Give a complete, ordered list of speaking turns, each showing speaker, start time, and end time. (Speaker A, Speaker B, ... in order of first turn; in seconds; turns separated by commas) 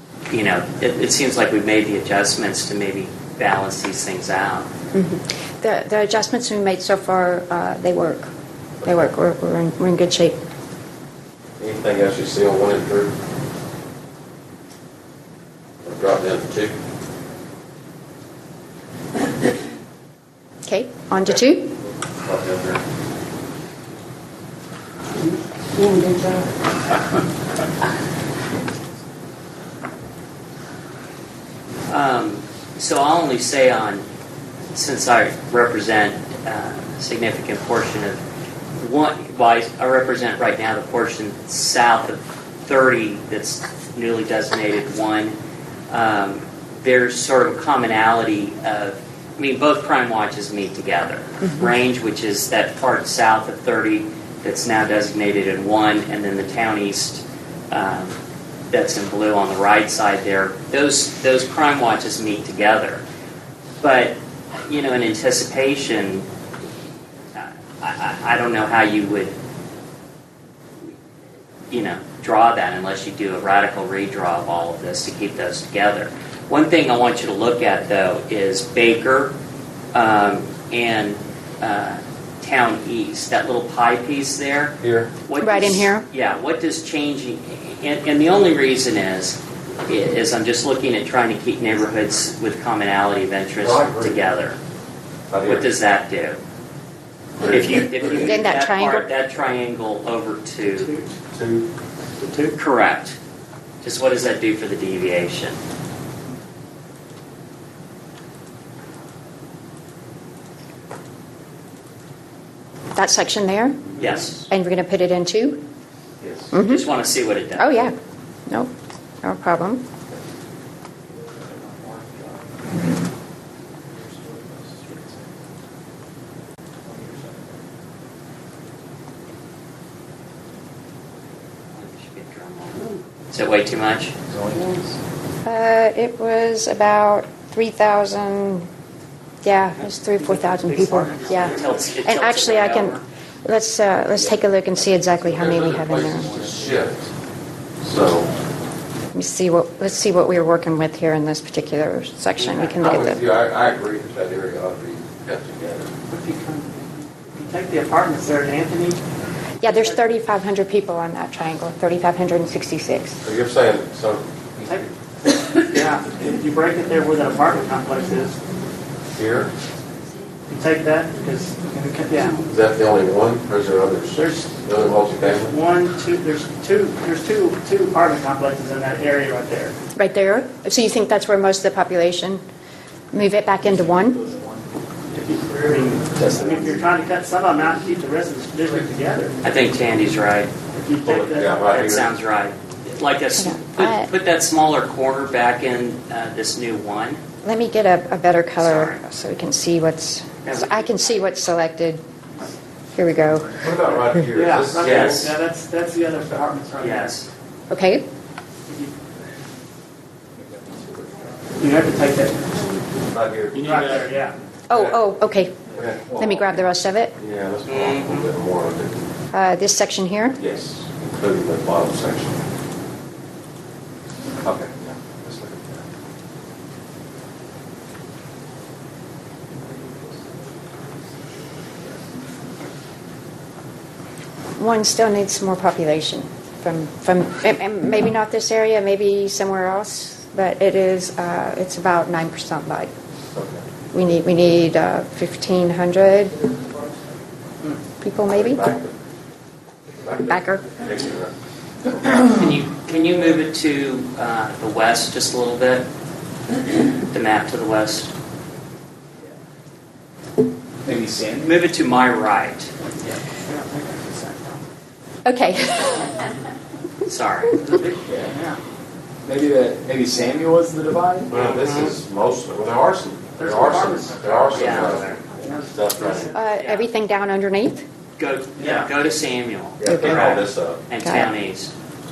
Speaker A: 0.3-4.7, Speaker B: 4.9-8.3, Speaker B: 8.8-10.4, Speaker C: 11.6-13.1, Speaker C: 15.8-16.7, Speaker B: 20.6-21.8, Speaker C: 21.8-22.8, Speaker A: 31.9-34.0, Speaker A: 34.7-38.2, Speaker A: 38.8-45.4, Speaker A: 45.9-58.2, Speaker A: 58.7-63.0, Speaker A: 63.8-66.2, Speaker A: 67.3-69.3, Speaker A: 71.7-79.3, Speaker A: 79.9-94.6, Speaker C: 84.8-85.1, Speaker B: 85.4-86.0, Speaker C: 93.6-94.2, Speaker C: 95.3-95.7, Speaker A: 95.4-96.4, Speaker C: 97.4-98.3, Speaker A: 97.4-100.9, Speaker B: 98.2-99.1, Speaker D: 100.7-101.1, Speaker C: 101.3-101.7, Speaker D: 102.2-102.5, Speaker A: 102.5-103.2, Speaker A: 103.8-105.6, Speaker B: 112.9-115.6, Speaker A: 114.0-114.4, Speaker C: 116.2-116.5, Speaker B: 116.5-116.8, Speaker A: 116.5-117.9, Speaker B: 117.6-117.9, Speaker B: 118.5-118.7, Speaker B: 119.2-119.8, Speaker E: 121.2-122.4, Speaker E: 124.0-125.1, Speaker E: 126.9-127.5, Speaker A: 131.7-134.1, Speaker E: 134.3-134.9, Speaker B: 135.4-138.7, Speaker B: 139.4-146.3, Speaker D: 140.2-141.9, Speaker A: 141.3-143.0, Speaker C: 144.1-147.0, Speaker E: 146.3-146.7, Speaker C: 147.8-148.3, Speaker B: 149.1-153.2, Speaker C: 152.8-155.9, Speaker D: 156.1-159.0, Speaker B: 159.6-163.2, Speaker D: 159.6-160.0, Speaker C: 163.2-164.9, Speaker D: 165.7-168.4, Speaker C: 169.1-169.5, Speaker D: 170.5-172.4, Speaker C: 172.4-175.5, Speaker D: 174.1-174.6, Speaker D: 175.2-179.7, Speaker B: 179.9-182.4, Speaker B: 183.1-184.2, Speaker E: 183.8-184.6, Speaker D: 185.1-189.4, Speaker E: 186.1-186.7, Speaker A: 189.4-190.5, Speaker D: 190.7-191.7, Speaker C: 191.0-192.1, Speaker A: 191.6-197.2, Speaker B: 193.4-194.1, Speaker B: 197.4-202.0, Speaker A: 198.6-199.0, Speaker A: 200.4-201.2, Speaker B: 202.9-203.7, Speaker C: 203.6-205.3, Speaker D: 204.3-207.1, Speaker A: 204.8-205.3, Speaker A: 206.8-207.3, Speaker B: 207.7-208.0, Speaker E: 210.4-211.3, Speaker D: 211.6-212.5, Speaker C: 213.1-213.7, Speaker E: 213.5-214.0, Speaker D: 213.5-214.4, Speaker B: 214.7-217.2, Speaker C: 214.7-214.9, Speaker C: 215.7-216.2, Speaker E: 216.0-216.5, Speaker C: 217.2-219.1, Speaker A: 217.7-218.3, Speaker B: 219.3-220.4, Speaker C: 220.4-222.4, Speaker C: 224.4-225.8, Speaker B: 234.6-242.9, Speaker C: 243.3-243.6, Speaker B: 243.9-246.4, Speaker B: 248.0-248.6, Speaker C: 248.3-248.9, Speaker C: 249.9-251.3, Speaker B: 250.3-250.8, Speaker C: 251.8-252.3, Speaker A: 252.2-255.9, Speaker A: 257.0-258.1, Speaker E: 260.9-261.5, Speaker A: 261.4-262.7, Speaker D: 263.0-264.6, Speaker B: 265.2-266.2, Speaker A: 267.1-267.6, Speaker D: 267.6-268.6, Speaker E: 269.2-271.3, Speaker C: 271.3-276.3, Speaker A: 271.3-271.9, Speaker D: 273.4-276.4, Speaker A: 274.5-275.2, Speaker B: 276.3-277.8, Speaker A: 276.5-276.9, Speaker A: 278.2-281.7, Speaker D: 278.6-278.9, Speaker C: 279.8-280.8, Speaker B: 279.9-280.4, Speaker B: 281.0-281.3